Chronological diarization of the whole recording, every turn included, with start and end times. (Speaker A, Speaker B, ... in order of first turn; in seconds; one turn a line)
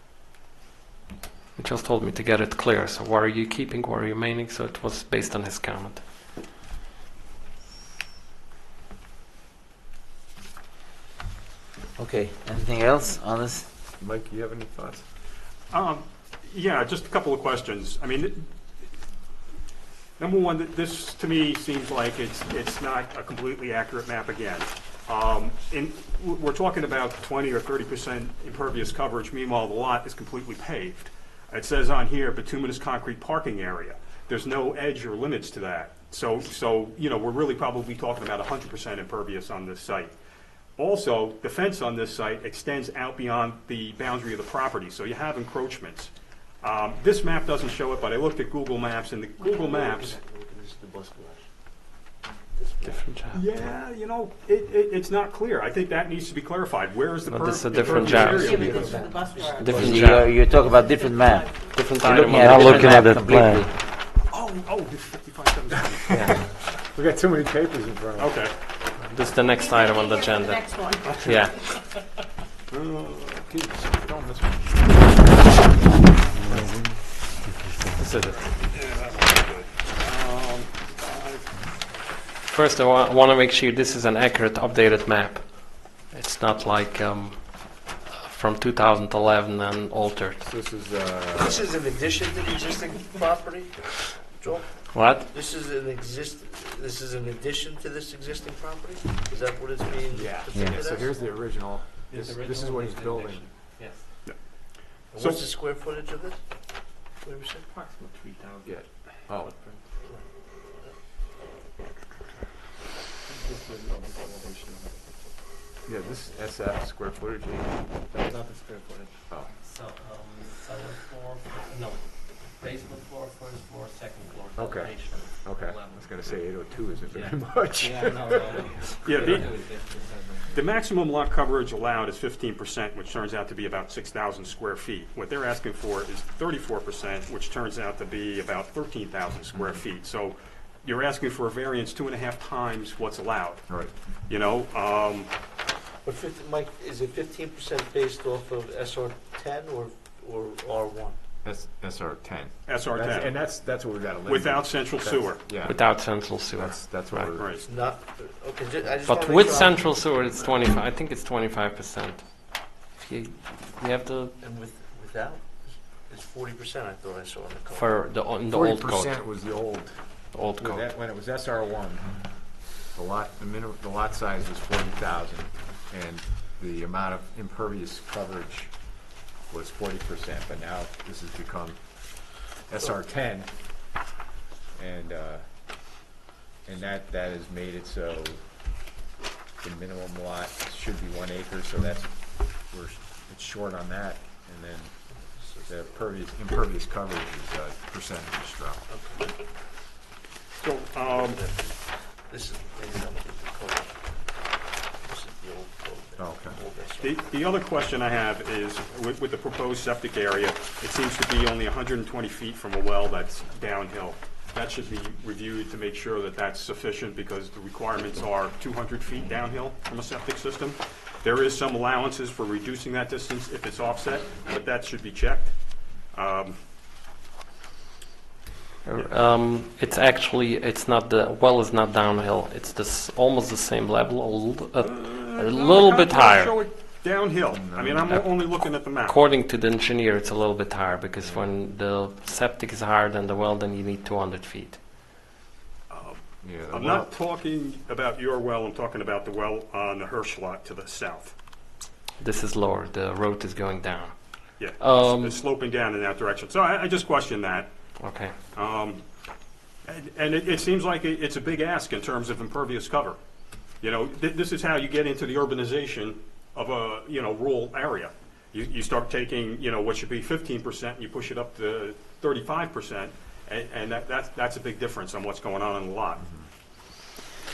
Speaker A: 1.6-6.0
Speaker B: 12.0-13.7
Speaker C: 14.0-15.0
Speaker D: 15.7-18.4
Speaker D: 20.2-40.1
Speaker D: 40.8-46.1
Speaker D: 46.6-50.2
Speaker E: 49.4-51.5
Speaker E: 52.5-53.0
Speaker A: 52.9-53.4
Speaker D: 53.3-59.0
Speaker A: 57.3-58.5
Speaker E: 57.9-60.0
Speaker F: 58.1-61.6
Speaker A: 59.5-60.4
Speaker B: 59.7-63.7
Speaker A: 61.6-63.6
Speaker D: 64.3-66.5
Speaker A: 66.1-66.4
Speaker C: 66.9-68.4
Speaker D: 68.2-68.5
Speaker A: 69.1-70.7
Speaker F: 69.5-71.1
Speaker D: 71.0-71.4
Speaker A: 71.2-71.6
Speaker D: 72.7-74.6
Speaker A: 78.0-78.5
Speaker D: 78.3-81.5
Speaker A: 82.5-90.4
Speaker C: 90.4-91.7
Speaker E: 91.4-101.2
Speaker A: 94.9-95.3
Speaker C: 100.1-103.5
Speaker G: 102.1-104.0
Speaker E: 105.1-106.4
Speaker D: 105.2-105.5
Speaker E: 107.2-107.7
Speaker G: 107.7-109.8
Speaker C: 108.7-109.5
Speaker G: 113.3-115.0
Speaker C: 115.8-117.8
Speaker G: 118.1-119.2
Speaker A: 119.7-122.1
Speaker G: 122.5-126.1
Speaker A: 122.7-125.1
Speaker C: 124.6-128.7
Speaker G: 127.1-130.7
Speaker D: 129.0-129.7
Speaker D: 130.5-143.7
Speaker C: 139.5-139.8
Speaker D: 144.3-145.3
Speaker E: 146.0-151.2
Speaker C: 151.4-155.8
Speaker D: 152.7-153.3
Speaker D: 154.3-155.5
Speaker A: 155.6-157.3
Speaker C: 156.5-157.5
Speaker D: 157.3-157.7
Speaker E: 157.6-159.8
Speaker A: 159.1-162.2
Speaker A: 163.0-164.3
Speaker E: 164.4-167.9
Speaker A: 167.8-169.2
Speaker C: 168.5-170.0
Speaker A: 170.3-170.8
Speaker C: 170.6-172.2
Speaker C: 172.8-179.0
Speaker C: 179.5-181.8
Speaker C: 182.7-183.5
Speaker C: 184.8-185.4
Speaker C: 186.7-188.4
Speaker C: 189.6-194.9
Speaker E: 195.1-195.7
Speaker C: 195.7-198.8
Speaker E: 198.9-199.3
Speaker D: 200.6-201.4
Speaker E: 201.0-204.2
Speaker E: 205.0-207.3
Speaker C: 206.2-206.6
Speaker D: 207.0-225.5
Speaker D: 226.1-226.6
Speaker A: 228.8-236.6
Speaker D: 234.8-239.2
Speaker C: 237.5-238.2
Speaker A: 239.0-244.8
Speaker C: 241.2-241.5
Speaker D: 245.9-251.3
Speaker C: 246.4-247.1
Speaker A: 252.2-255.4
Speaker D: 254.6-257.7
Speaker A: 258.0-258.3
Speaker D: 258.6-259.0
Speaker D: 259.9-263.2
Speaker D: 263.8-276.2
Speaker C: 276.2-276.5